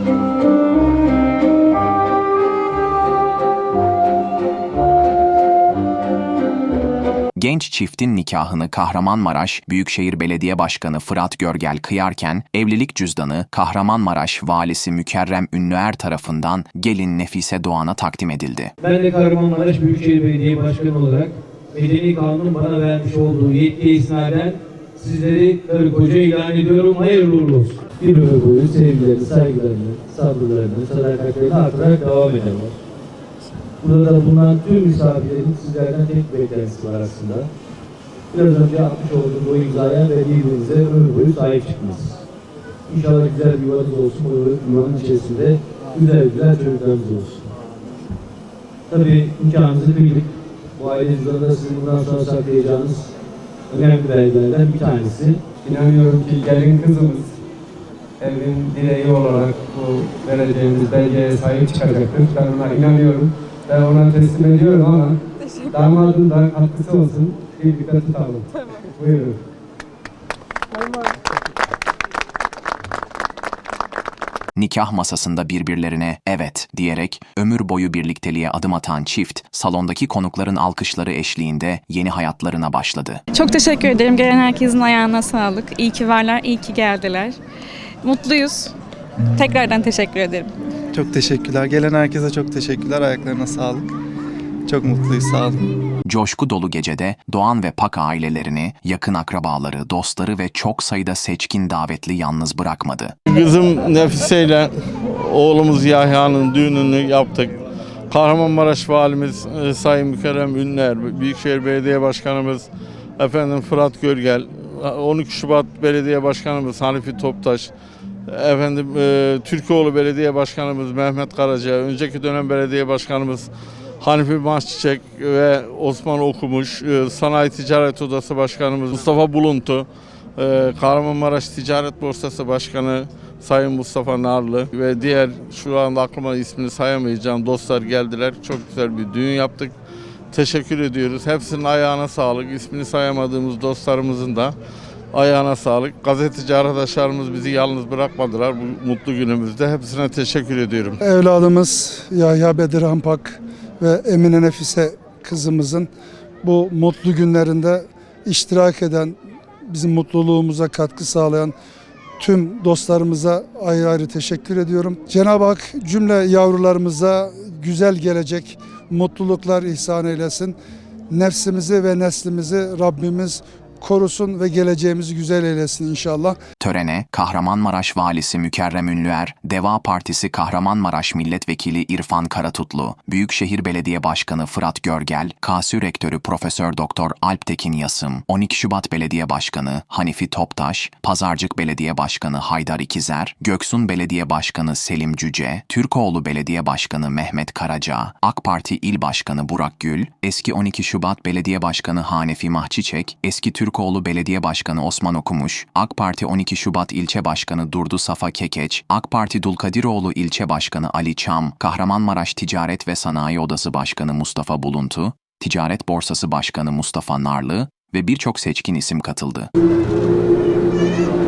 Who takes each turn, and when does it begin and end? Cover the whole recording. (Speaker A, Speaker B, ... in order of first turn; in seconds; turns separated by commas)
Speaker A: 7.4-18.7, Speaker B: 18.8-32.8, Speaker B: 33.8-37.5, Speaker B: 38.3-42.2, Speaker B: 42.9-47.4, Speaker B: 48.9-53.1, Speaker B: 53.7-55.4, Speaker C: 55.6-57.4, Speaker C: 58.2-69.4, Speaker A: 74.6-83.2, Speaker D: 83.3-87.4, Speaker D: 88.0-88.7, Speaker D: 89.3-90.5, Speaker E: 90.9-93.9, Speaker E: 94.7-95.6, Speaker A: 96.1-103.1, Speaker F: 103.3-117.7, Speaker F: 118.3-139.8, Speaker F: 140.3-144.6, Speaker F: 145.1-151.0, Speaker G: 151.0-155.9, Speaker G: 156.4-159.2, Speaker G: 159.7-161.5, Speaker G: 162.2-170.6, Speaker G: 171.1-176.4, Speaker A: 176.6-219.5